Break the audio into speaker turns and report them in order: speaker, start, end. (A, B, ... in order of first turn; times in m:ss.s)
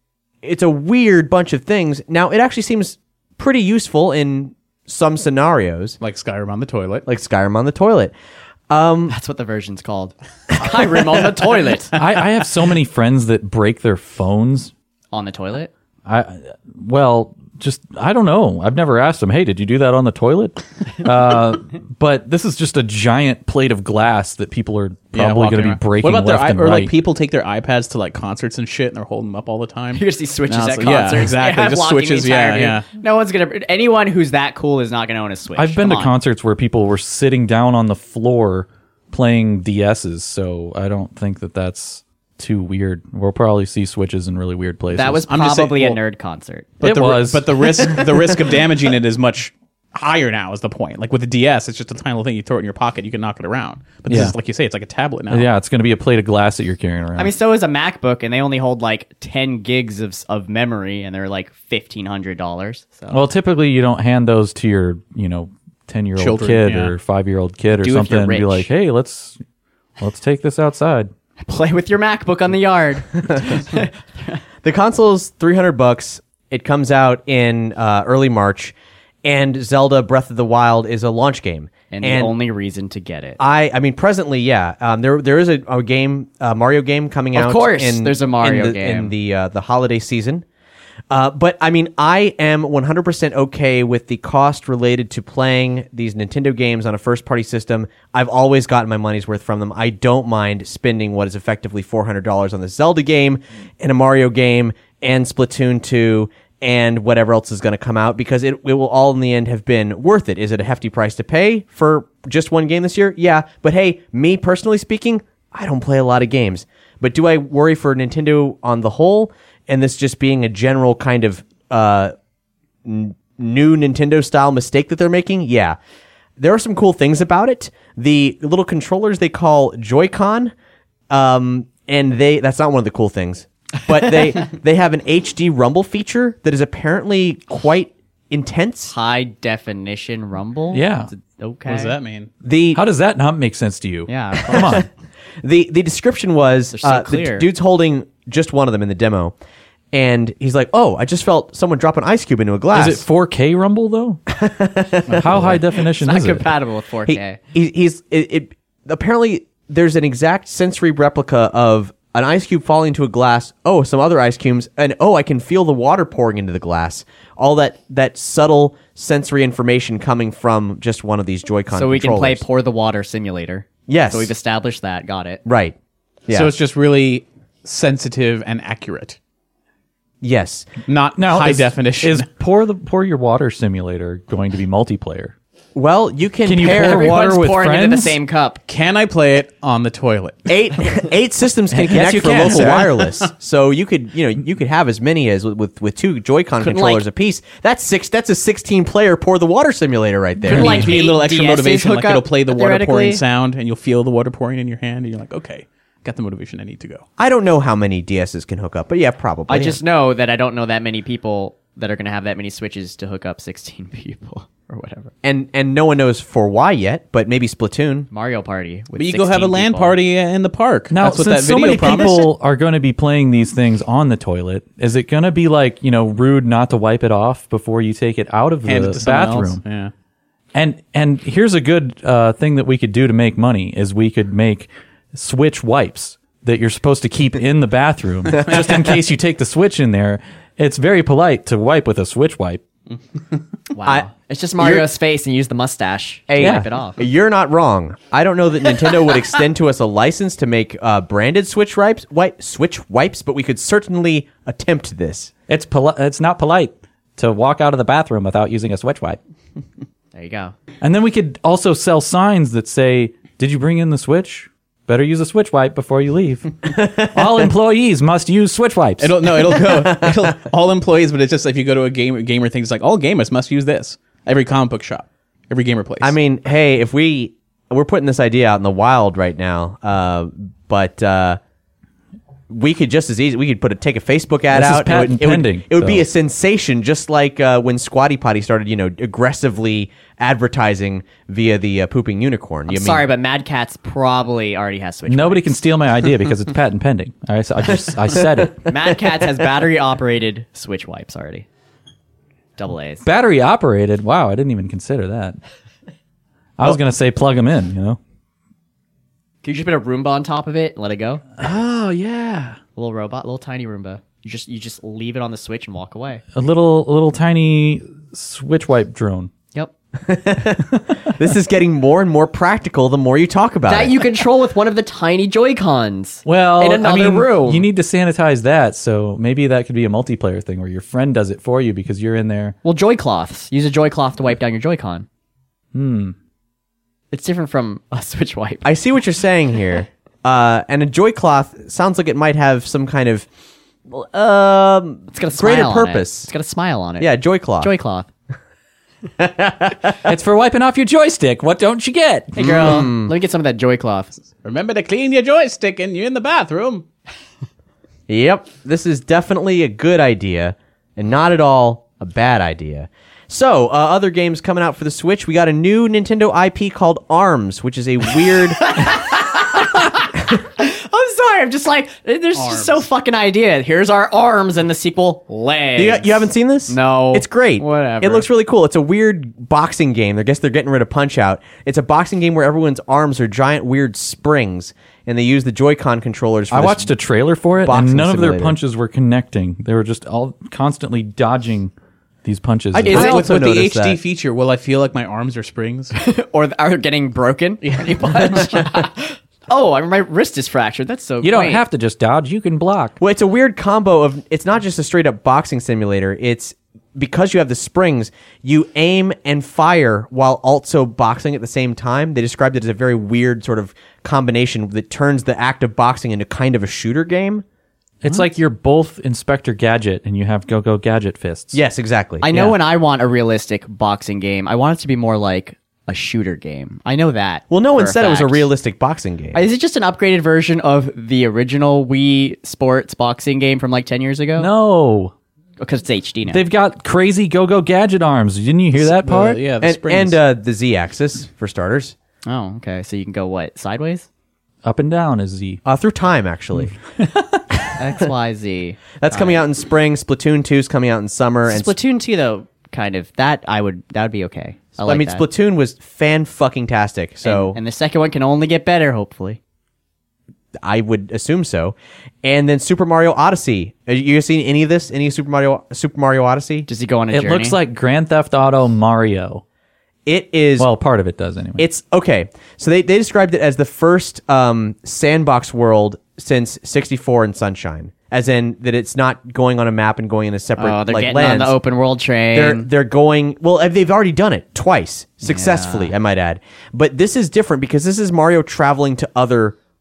0:00.4-0:06.0 A
0:06.0-0:07.1 B
0:07.1-0:08.1 A
0:08.7-0:09.1 A
0:09.1-0:11.9 C
0:12.0-0:14.7 D
0:15.1-0:15.7 C
0:16.0-0:26.9 D
0:25.1-0:32.8 B
0:29.9-0:36.1 C
0:35.6-0:45.3 D
0:44.9-0:46.7 C
0:45.3-0:46.0 B
0:46.8-0:55.5 B
0:46.8-0:47.8 D
0:54.1-0:54.4 D
0:55.3-0:57.3 D
0:57.2-1:03.2 C
1:03.1-1:09.4 D
1:06.2-1:06.9 B
1:07.8-1:08.7 C
1:10.0-1:11.1 D
1:11.4-1:14.4 C
1:13.2-1:13.7 A
1:14.6-1:22.3 A
1:21.9-1:23.4 C
1:23.4-1:30.4 A
1:27.3-1:29.1 C
1:31.1-2:02.1 A
2:02.8-2:05.8 A
2:06.4-2:10.5 A
2:11.1-2:18.9 A
2:18.9-2:22.0 C
2:20.7-2:21.1 D
2:21.6-2:22.3 B
2:22.4-2:22.8 A
2:22.7-2:24.8 D
2:24.1-2:24.8 C
2:25.4-2:29.3 A
2:26.7-2:27.5 C
2:29.9-2:33.0 A
2:32.7-2:34.2 D
2:34.3-2:35.4 A
2:35.1-2:36.5 D
2:35.4-2:37.4 C
2:37.1-2:52.4 A
2:51.7-2:55.4 C
2:53.9-2:54.3 A
2:55.4-2:55.7 A
2:56.3-2:56.5 A
2:56.3-2:59.2 B
3:00.2-3:00.8 A
3:00.8-3:02.3 B
3:01.2-3:05.3 D
3:05.7-3:07.2 A
3:06.4-3:08.2 D
3:06.6-3:08.6 C
3:08.7-3:10.5 B
3:10.5-3:20.9 A
3:11.7-3:12.9 D
3:12.2-3:13.3 B
3:16.6-3:17.0 C
3:20.5-3:23.2 C
3:20.5-3:27.0 B
3:27.2-3:29.8 A
3:29.5-3:35.1 C
3:35.2-3:38.1 A
3:38.1-3:40.0 C
3:39.0-3:42.3 B
3:40.9-3:49.6 D
3:48.6-3:49.9 B
3:50.5-4:02.6 D
4:03.7-4:07.0 C
4:03.8-4:04.9 A
4:06.3-4:15.3 A
4:06.4-4:06.6 D
4:15.5-4:19.2 D
4:20.1-4:20.5 C
4:20.8-4:29.2 D
4:26.7-4:27.5 A
4:29.0-4:36.2 B
4:29.6-4:30.2 A
4:36.0-4:41.4 A
4:42.5-4:53.1 A
4:44.5-4:46.1 D
4:52.7-4:55.6 C
4:55.1-4:58.6 D
4:58.6-5:01.5 C
5:02.6-5:03.0 C
5:03.0-5:05.4 D
5:06.6-5:08.0 D
5:09.4-5:11.2 C
5:11.4-5:12.6 D
5:12.8-5:16.2 C
5:16.3-5:19.3 D
5:20.0-5:24.0 A
5:23.6-5:27.7 C
5:26.2-5:32.5 D
5:32.6-5:35.0 C
5:35.7-5:36.2 D
5:37.1-5:38.7 C
5:38.6-5:43.3 A
5:43.9-5:46.3 A
5:45.1-5:48.1 C
5:47.0-5:47.7 A
5:49.2-5:50.0 A
5:50.0-5:52.7 D
5:52.4-5:54.2 C
5:52.4-5:53.1 A
5:54.4-5:56.8 B
5:58.1-6:09.0 A
6:08.6-6:18.3 C
6:12.4-6:12.8 B
6:15.8-6:26.9 A
6:26.5-6:31.7 D
6:27.6-6:28.6 A
6:32.2-6:33.1 D
6:32.8-6:34.0 A
6:32.8-6:35.9 B
6:32.9-6:33.2 C
6:35.9-6:41.6 C
6:37.6-6:38.4 B
6:41.2-6:43.0 D
6:43.0-6:57.4 A
6:58.0-7:01.6 D
7:01.5-7:02.3 A
7:02.2-7:08.5 C
7:07.5-7:09.4 A
7:09.3-7:14.5 C
7:14.4-7:15.1 D
7:15.6-7:16.4 C
7:16.3-7:19.4 D
7:18.8-7:20.2 B
7:19.6-7:21.9 A
7:22.2-7:24.1 C
7:24.6-7:25.6 D
7:25.6-7:26.8 A
7:27.0-7:27.4 D
7:27.8-7:29.4 C
7:29.0-7:31.7 A
7:31.5-7:35.2 C
7:34.8-7:37.6 A
7:37.2-7:39.4 C
7:40.6-7:46.7 A
7:46.7-7:47.6 C
7:47.1-7:49.4 D
7:50.0-7:50.7 A
7:50.6-7:51.6 D
7:51.6-8:01.6 A
8:00.6-8:02.7 C
8:02.3-8:09.6 A
8:05.2-8:05.9 C